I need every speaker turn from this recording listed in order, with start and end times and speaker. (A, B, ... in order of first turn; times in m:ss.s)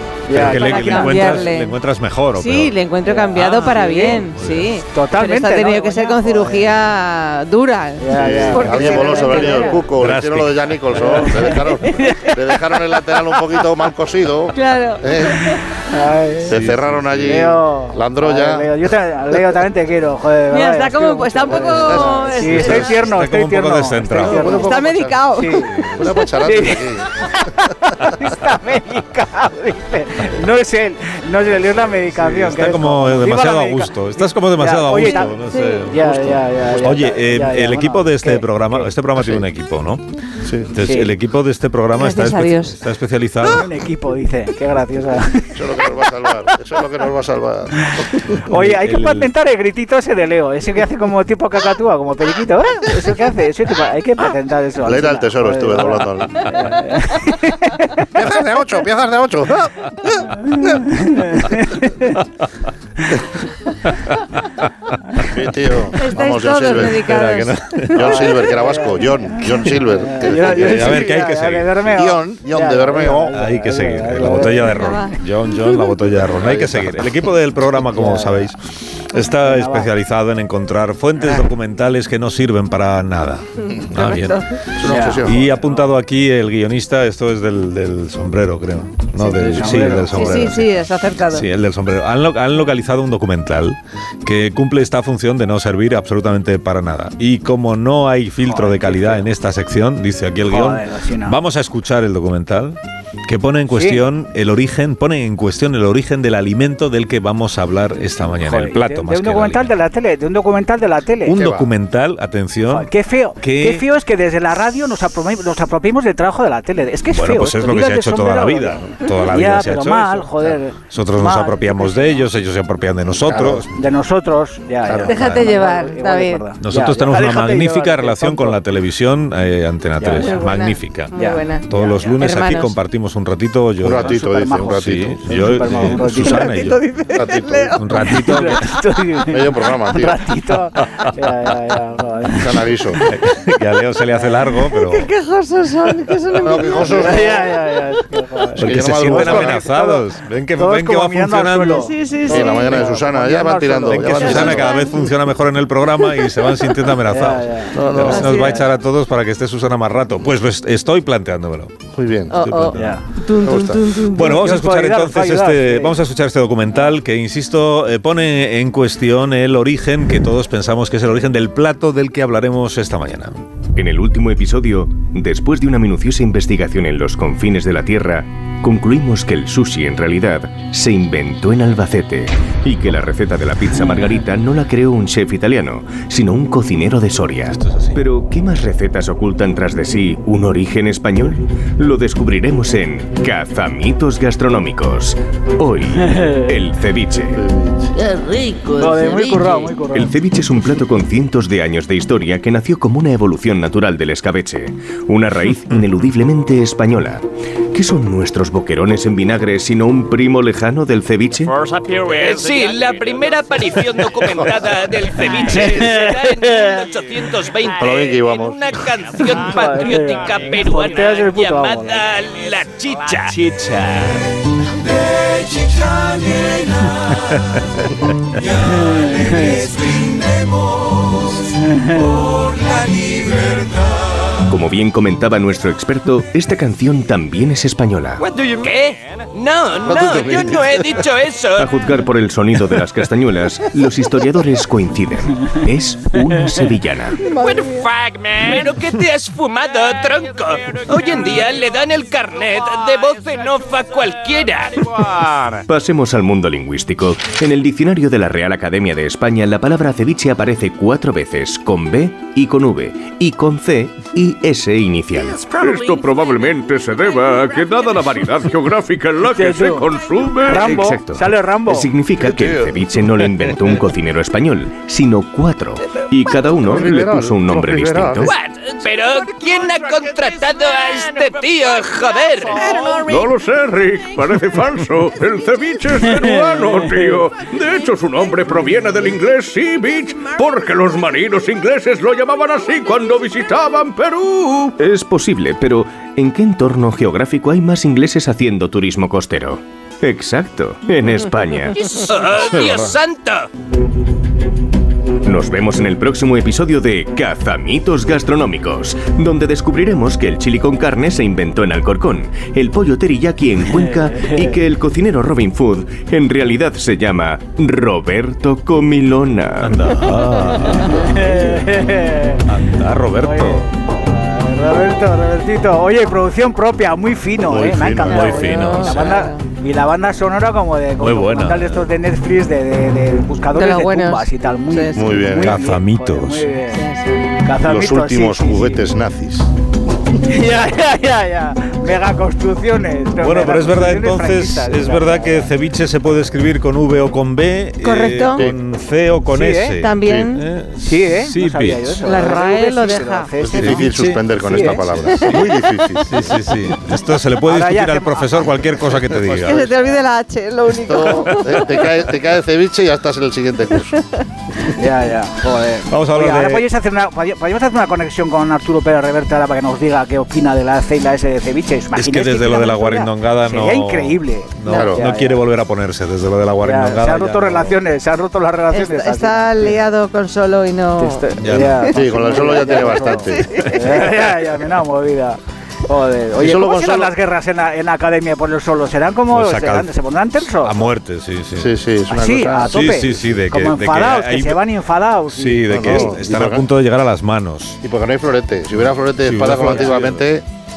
0:00.2-0:01.4 A
0:00.3-0:02.7 B
0:00.4-0:01.7 C
0:02.4-0:09.8 C
0:03.0-0:04.2 A
0:04.2-0:04.8 B
0:04.9-0:06.7 A
0:08.0-0:09.7 A
0:08.1-0:15.4 D
0:09.9-0:11.1 B
0:10.9-0:12.4 A
0:14.5-0:15.6 C
0:15.8-0:16.6 A
0:16.5-0:18.7 D
0:16.5-0:17.4 B
0:17.2-0:25.9 A
0:20.5-0:22.9 C
0:21.5-0:22.8 D
0:22.6-0:24.6 B
0:24.2-0:26.0 C
0:24.2-0:25.3 D
0:26.0-0:27.1 D
0:26.4-0:38.9 A
0:32.1-0:40.0 B
0:35.0-0:35.8 C
0:39.2-0:39.4 D
0:40.6-0:43.7 B
0:40.7-0:41.1 A
0:42.0-0:42.8 C
0:43.4-0:45.9 A
0:45.5-0:48.4 D
0:48.4-0:58.1 A
0:48.5-0:49.3 B
0:54.8-0:56.4 D
0:58.1-1:00.8 D
1:00.4-1:02.2 A
1:05.2-1:07.1 D
1:05.9-1:08.5 C
1:06.8-1:08.2 B
1:07.9-1:11.1 D
1:08.3-1:15.2 A
1:10.3-1:12.0 B
1:11.9-1:13.4 D
1:13.3-1:24.4 B
1:14.6-1:15.1 C
1:16.3-1:17.1 D
1:17.9-1:18.5 A
1:19.4-1:19.9 A
1:23.7-1:24.6 C
1:24.8-1:25.6 D
1:24.8-1:25.6 A
1:25.2-1:30.7 B
1:29.2-1:30.5 A
1:30.1-1:31.4 C
1:31.3-1:49.8 B
1:38.4-1:39.3 A
1:40.5-1:41.4 A
1:43.7-1:44.0 A
1:48.3-1:51.4 A
1:51.2-1:53.8 B
1:51.3-1:51.7 D
1:52.7-2:02.3 A
1:57.1-2:03.7 B
2:03.3-2:03.6 D
2:03.7-2:08.6 A
2:04.8-2:05.2 D
2:05.0-2:05.6 B
2:05.1-2:06.5 C
2:06.6-2:11.1 B
2:10.0-2:10.5 A
2:10.2-2:12.7 C
2:11.1-2:12.2 A
2:11.7-2:16.8 B
2:13.8-2:15.2 D
2:14.0-2:16.5 A
2:16.2-2:18.1 C
2:17.1-2:17.7 D
2:17.6-2:18.7 B
2:17.9-2:22.7 A
2:19.2-2:20.2 D
2:22.4-2:23.0 D
2:23.1-2:25.1 B
2:24.1-2:24.5 A
2:24.7-2:27.3 C
2:26.4-2:27.5 D
2:27.0-2:34.6 A
2:28.6-2:31.9 B
2:28.6-2:29.7 D
2:31.8-2:33.0 C
2:32.2-2:34.8 D
2:33.8-2:41.7 B
2:34.0-2:35.1 C
2:37.0-2:38.6 A
2:37.7-2:38.4 D
2:38.0-2:38.6 C
2:41.9-2:42.5 D
2:42.3-2:44.3 C
2:42.3-2:42.8 B
2:42.7-2:43.1 A
2:43.4-2:43.8 D
2:44.0-2:53.5 B
2:44.2-2:46.0 A
2:53.7-3:17.4 E
3:07.5-3:08.0 B
3:16.0-3:16.5 A
3:17.2-3:17.9 D
3:18.7-3:20.1 A
3:19.9-3:31.5 E
3:31.4-3:44.3 F
3:35.4-3:36.8 A
3:37.8-3:38.6 D
3:39.3-3:42.0 A
3:48.6-3:49.6 A
3:51.6-3:52.1 A
3:54.5-3:58.2 E
3:58.2-4:01.7 F
3:59.8-4:00.8 D
4:01.6-4:07.2 E
4:07.2-4:15.6 F
4:15.7-4:25.4 E
4:25.4-4:30.7 G
4:29.3-4:31.9 A
4:30.5-4:38.3 E
4:32.2-4:32.8 D
4:36.6-4:38.3 D
4:38.2-4:43.1 F
4:43.0-4:54.8 G
4:46.0-4:47.2 A
4:54.8-5:01.8 E
5:01.7-5:03.5 F
5:05.2-5:19.9 E
5:13.7-5:14.6 A
5:19.6-5:21.9 B
5:20.8-5:22.4 A
5:22.4-5:23.7 B
5:23.2-5:36.8 A
5:27.4-5:28.5 D
5:28.1-5:29.2 B
5:28.3-5:29.4 C
5:31.0-5:31.9 B
5:33.5-5:35.2 C
5:34.9-5:35.6 D
5:35.4-5:36.5 B
5:36.7-5:37.3 C
5:37.4-5:38.8 A
5:37.6-5:39.5 D
5:40.2-5:45.5 A
5:43.2-5:52.1 B
5:47.8-5:48.4 C
5:49.3-5:49.8 A
5:49.8-5:50.4 C
5:50.0-5:50.3 D
5:50.8-5:54.8 A
5:52.0-5:53.3 C
5:53.4-5:56.2 D
5:53.5-5:55.5 B
5:55.1-5:55.4 C
5:56.0-5:59.7 B
5:57.4-5:59.1 A
5:59.3-5:59.9 D
5:59.4-6:01.9 C
6:00.8-6:03.9 D
6:01.1-6:01.5 B
6:04.8-6:12.8 A
6:05.9-6:06.6 B
6:12.0-6:17.8 B
6:12.6-6:13.0 C
6:13.4-6:15.4 A
6:14.7-6:15.0 D
6:16.6-6:19.8 A
6:18.7-6:22.0 C
6:21.0-6:30.9 A
6:21.4-6:21.9 B
6:21.9-6:23.6 D
6:23.3-6:24.0 C
6:26.4-6:27.1 D
6:29.3-6:31.7 B
6:31.6-6:33.1 D
6:32.1-6:36.2 A
6:32.7-6:34.6 B
6:35.3-6:37.8 B
6:35.7-6:36.6 D
6:37.8-6:40.4 D
6:39.2-6:40.3 B